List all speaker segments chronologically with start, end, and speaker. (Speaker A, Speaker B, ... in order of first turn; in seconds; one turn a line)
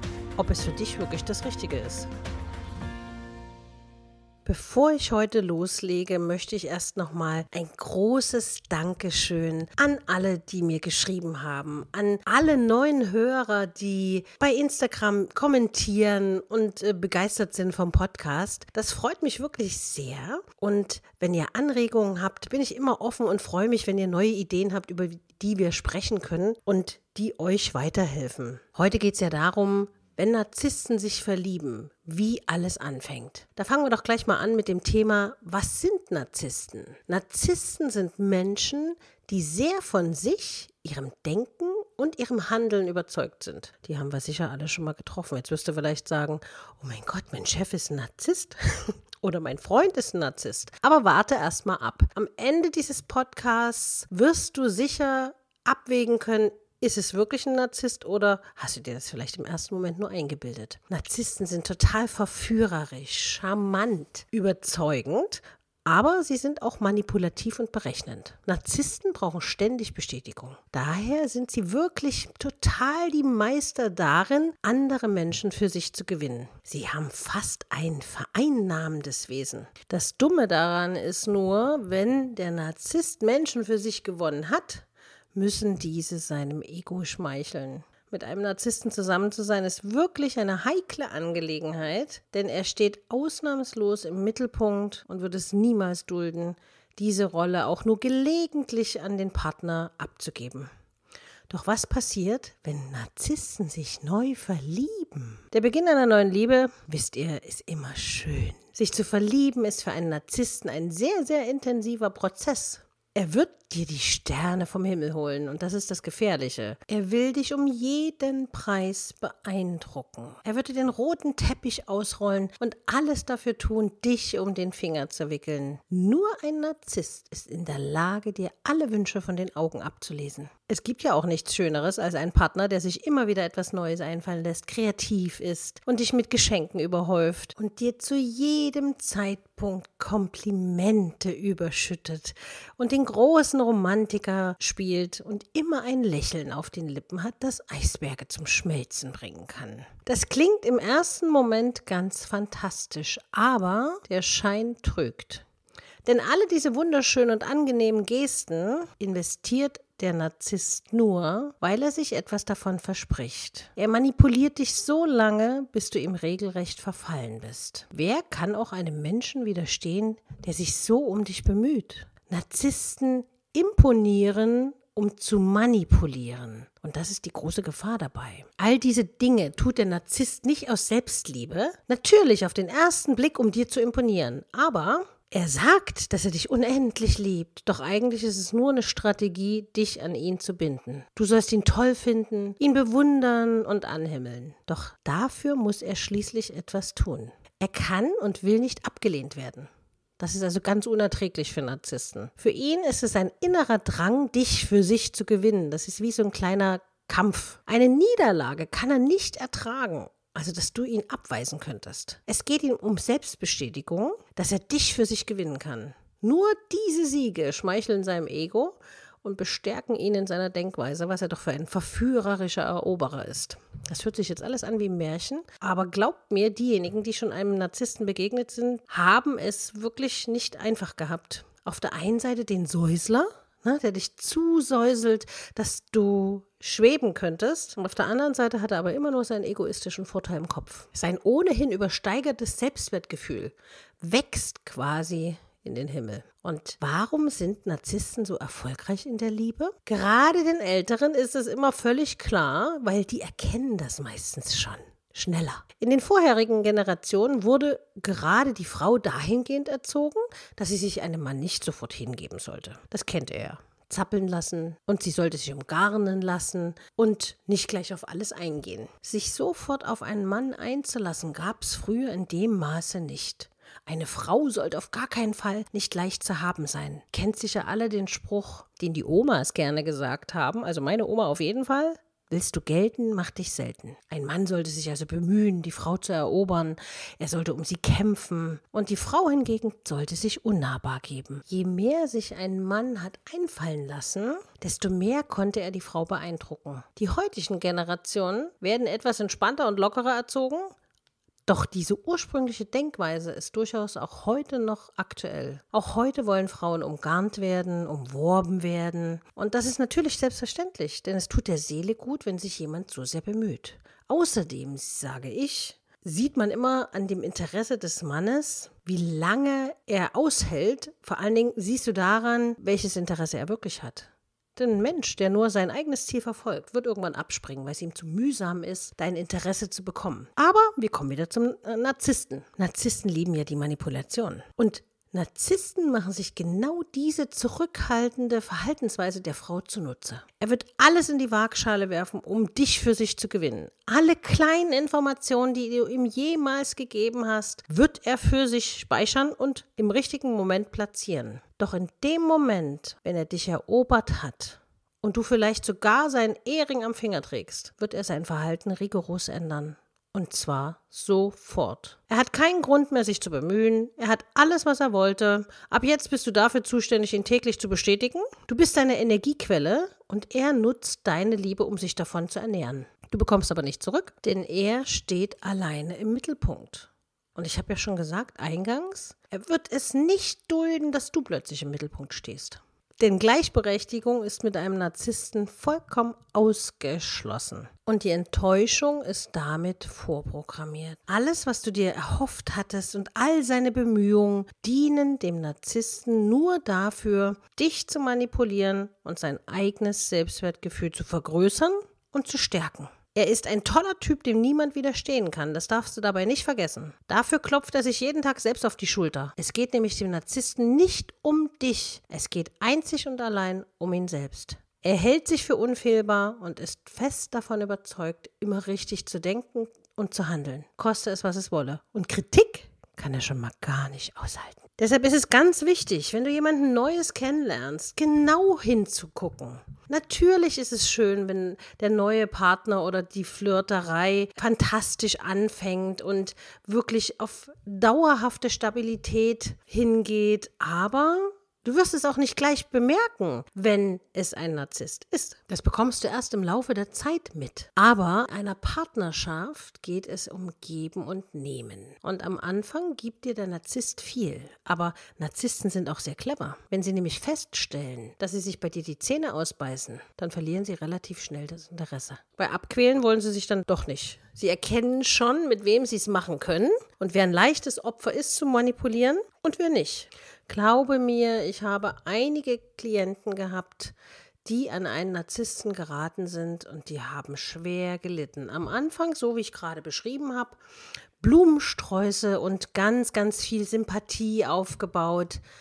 Speaker A: 0.4-2.1
Speaker A: 4.5-100.7
Speaker A: 101.5-155.4
Speaker A: 156.1-300.7
Speaker A: 301.5-480.6
Speaker A: 481.2-485.4